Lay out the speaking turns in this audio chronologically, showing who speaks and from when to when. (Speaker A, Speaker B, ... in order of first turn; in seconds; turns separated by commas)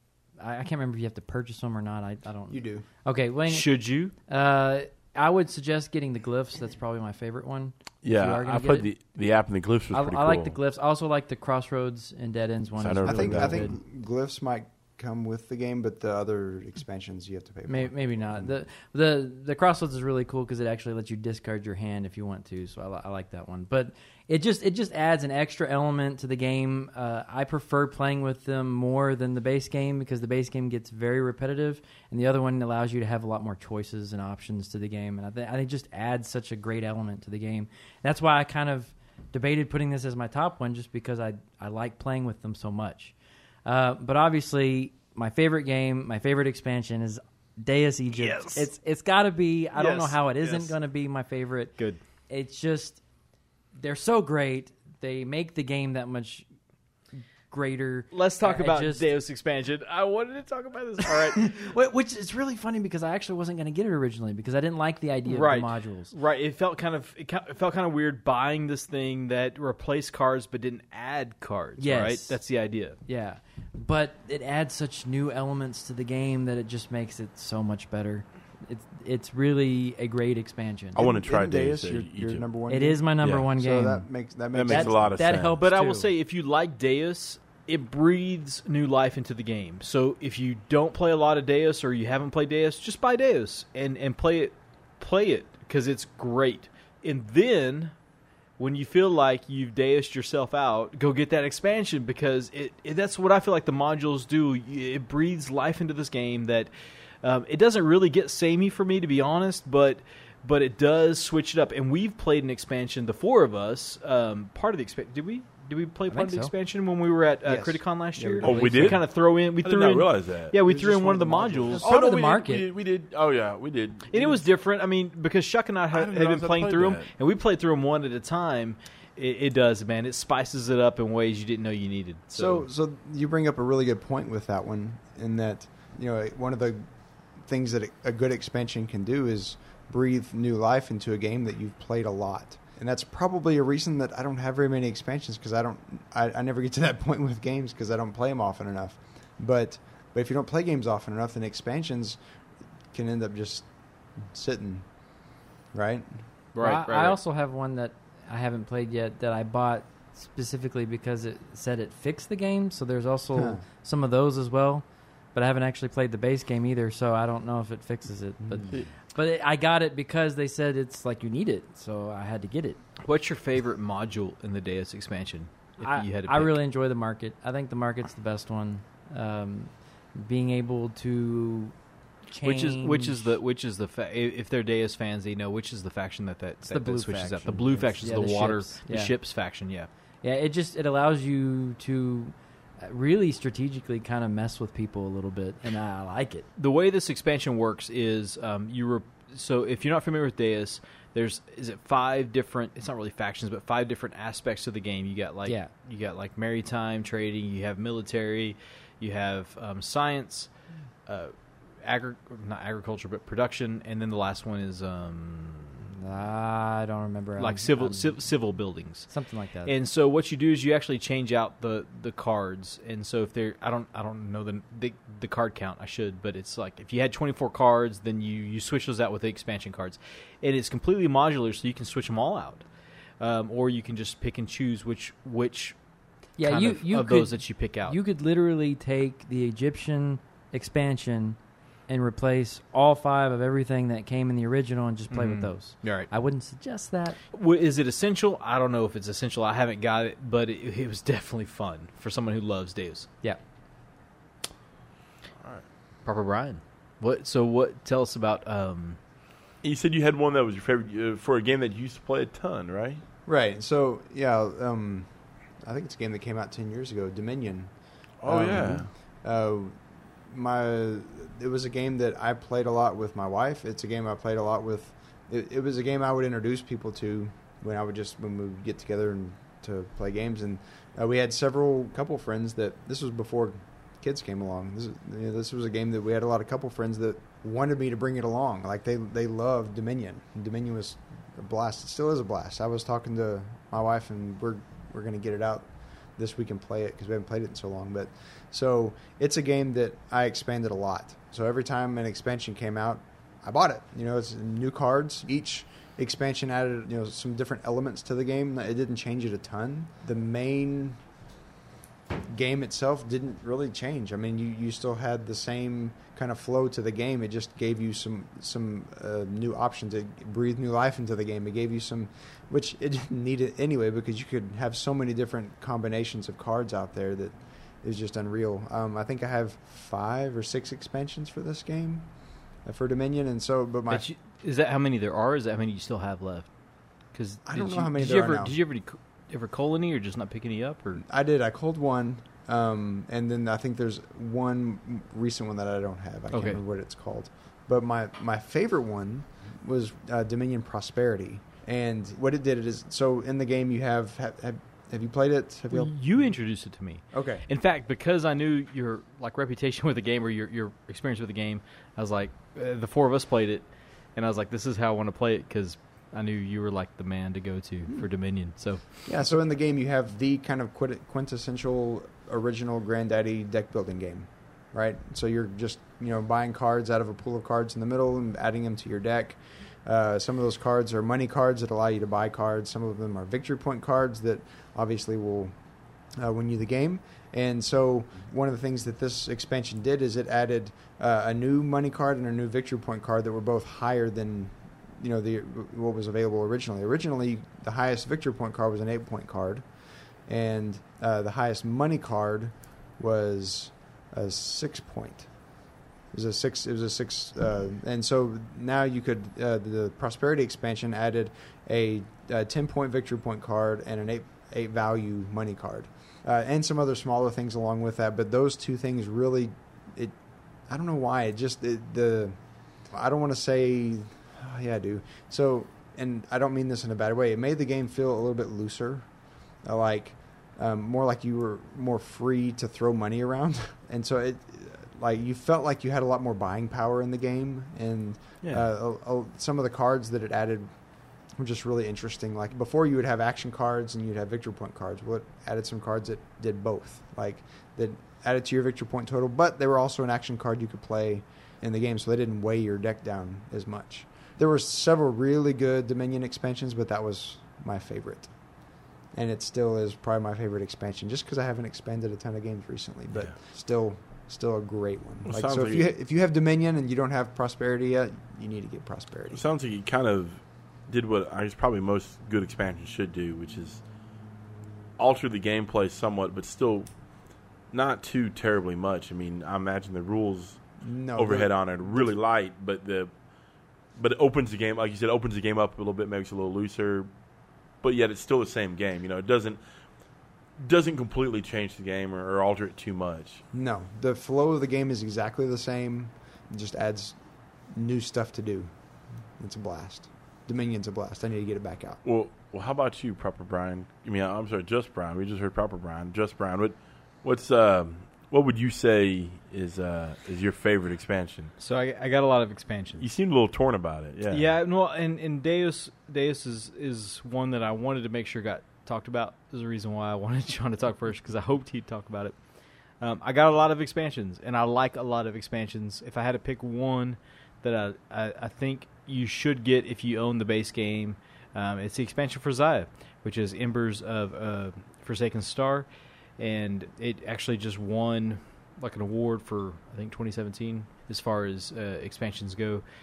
Speaker A: 0.4-3.7, Speaker B: 2.5-2.9, Speaker C: 3.5-4.1, Speaker A: 4.3-8.9, Speaker D: 8.0-10.6, Speaker A: 9.9-13.8, Speaker D: 12.8-13.7, Speaker B: 13.1-18.5, Speaker A: 17.7-53.0, Speaker C: 48.1-48.7, Speaker C: 49.7-50.8, Speaker A: 53.8-56.5, Speaker A: 57.5-59.1, Speaker C: 58.1-61.5, Speaker A: 61.3-66.1, Speaker C: 65.3-73.0, Speaker A: 71.8-72.4, Speaker A: 73.1-81.0, Speaker D: 81.0-82.5, Speaker B: 81.0-85.2, Speaker A: 82.7-84.1, Speaker D: 83.2-83.5, Speaker D: 84.5-85.6, Speaker A: 84.7-86.1, Speaker C: 85.6-97.9, Speaker C: 98.6-106.7, Speaker C: 107.2-121.9, Speaker A: 116.1-116.5, Speaker B: 117.4-119.0, Speaker D: 118.4-119.1, Speaker D: 119.6-120.6, Speaker B: 120.6-121.9, Speaker A: 121.8-122.7, Speaker D: 121.8-124.5, Speaker C: 124.1-132.7, Speaker D: 125.9-127.1, Speaker B: 132.3-136.9, Speaker B: 137.4-152.2, Speaker B: 152.9-155.0, Speaker B: 155.7-156.3, Speaker C: 156.5-157.2, Speaker A: 156.6-172.8, Speaker B: 163.3-163.6, Speaker B: 168.4-168.8, Speaker C: 173.1-176.6, Speaker A: 175.8-181.8, Speaker A: 182.3-183.3, Speaker C: 182.4-189.9, Speaker A: 186.7-189.1, Speaker A: 190.2-196.5, Speaker C: 196.6-210.5, Speaker C: 211.1-215.9, Speaker A: 215.9-218.2, Speaker C: 217.4-232.7, Speaker A: 219.1-219.7, Speaker C: 233.2-235.8, Speaker A: 236.4-247.2, Speaker C: 236.4-238.0, Speaker C: 245.1-246.1, Speaker C: 247.3-253.1, Speaker C: 256.1-259.0, Speaker D: 259.6-263.0, Speaker B: 263.3-311.0, Speaker D: 268.2-268.9, Speaker B: 312.3-334.1, Speaker C: 333.9-336.5, Speaker C: 337.1-341.0, Speaker B: 337.5-338.6, Speaker B: 341.0-355.9, Speaker C: 346.3-346.6, Speaker C: 355.7-368.9, Speaker B: 357.1-357.4, Speaker B: 369.1-385.6, Speaker B: 386.2-399.7, Speaker B: 400.3-405.3, Speaker B: 406.1-458.4, Speaker B: 459.1-469.4, Speaker D: 465.3-465.9, Speaker D: 469.3-473.8, Speaker D: 475.0-476.9, Speaker D: 477.7-480.6, Speaker B: 480.8-482.2, Speaker D: 481.2-483.1, Speaker D: 484.0-487.1, Speaker D: 487.8-489.6, Speaker D: 490.6-493.4, Speaker B: 493.5-497.2, Speaker B: 497.7-498.7, Speaker B: 499.4-502.0, Speaker D: 502.0-511.5, Speaker C: 511.6-513.0, Speaker D: 513.0-514.5, Speaker C: 514.3-522.4, Speaker C: 523.0-535.9, Speaker C: 536.4-542.8